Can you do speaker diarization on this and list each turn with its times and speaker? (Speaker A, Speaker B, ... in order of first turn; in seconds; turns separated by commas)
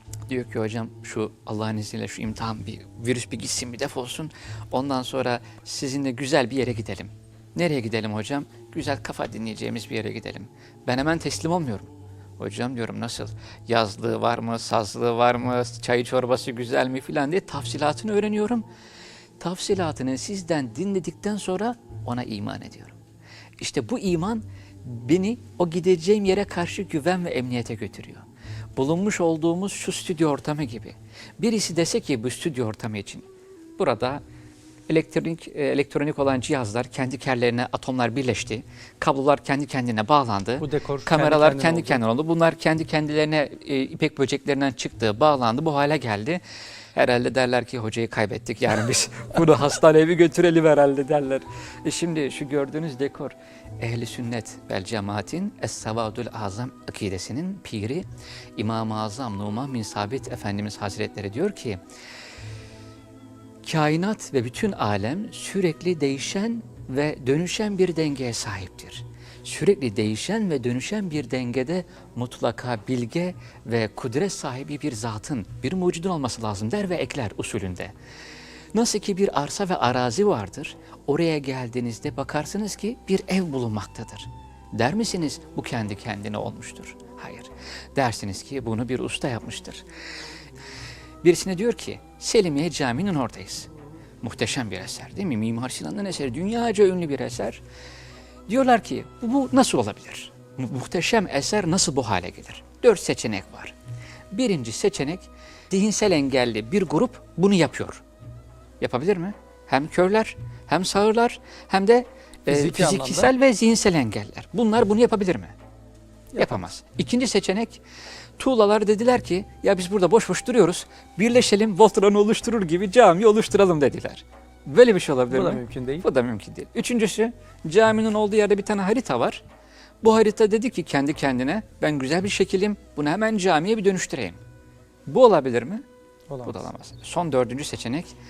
Speaker A: 0.3-18.6, Speaker A: 19.4-23.0, Speaker A: 23.6-33.2, Speaker A: 33.8-34.2, Speaker A: 34.9-46.4, Speaker B: 40.6-42.0, Speaker A: 46.9-58.0, Speaker A: 58.6-61.8, Speaker A: 63.6-77.9, Speaker A: 78.7-89.8, Speaker A: 91.2-93.7, Speaker A: 94.2-97.6, Speaker A: 98.5-103.8, Speaker A: 104.3-108.0, Speaker A: 108.8-115.5, Speaker B: 112.5-113.3, Speaker A: 116.3-117.8, Speaker A: 118.4-129.4, Speaker B: 125.3-126.0, Speaker A: 130.0-134.4, Speaker A: 135.1-135.8, Speaker B: 136.3-136.7, Speaker A: 136.4-138.1